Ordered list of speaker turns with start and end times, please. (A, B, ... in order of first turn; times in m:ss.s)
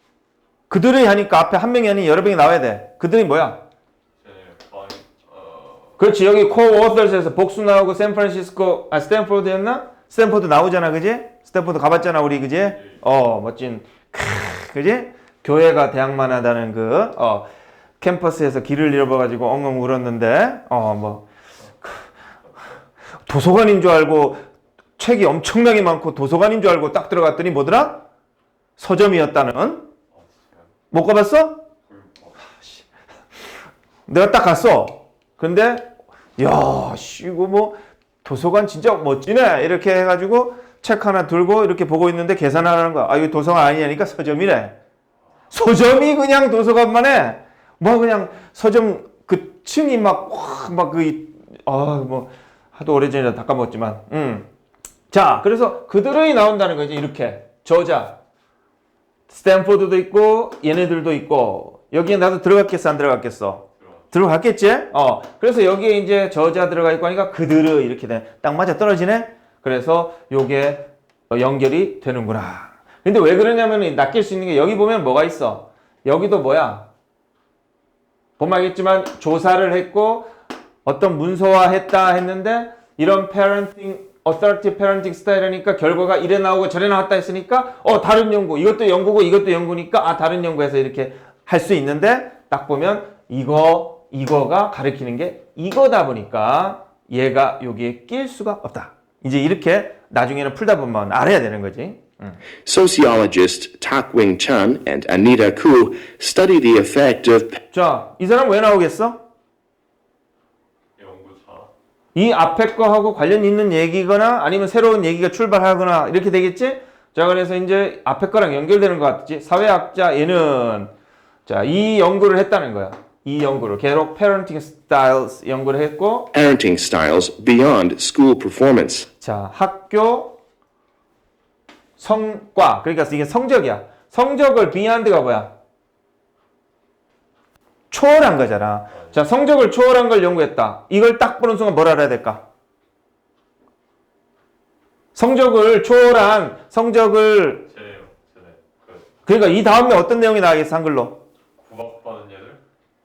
0:00.7-0:03.6 A
0:04.2-0:06.0 B
0:06.0-0:17.5 A
0:18.0-0:21.2 A
0:23.2-0:24.4 A
0:25.0-0:28.0 A
0:28.8-0:29.9 A
0:30.2-0:30.6 B
0:30.9-0:31.6 A
0:31.9-0:32.6 B
0:34.1-0:44.7 A
0:45.5-0:54.5 A
0:55.1-0:58.2 A
0:59.3-1:16.9 A
1:18.4-1:20.3 A
1:20.8-1:42.4 A
1:42.6-1:47.6 C
1:47.7-1:49.2 A
1:51.0-1:51.7 B
1:52.1-2:00.9 A
2:01.4-2:06.3 A
2:06.3-2:09.1 C
2:09.2-2:10.4 A
2:12.0-2:15.5 A
2:17.9-2:22.4 A
2:25.1-2:27.6 A
2:27.7-2:29.1 B
2:29.2-2:31.2 A
2:31.6-2:32.6 B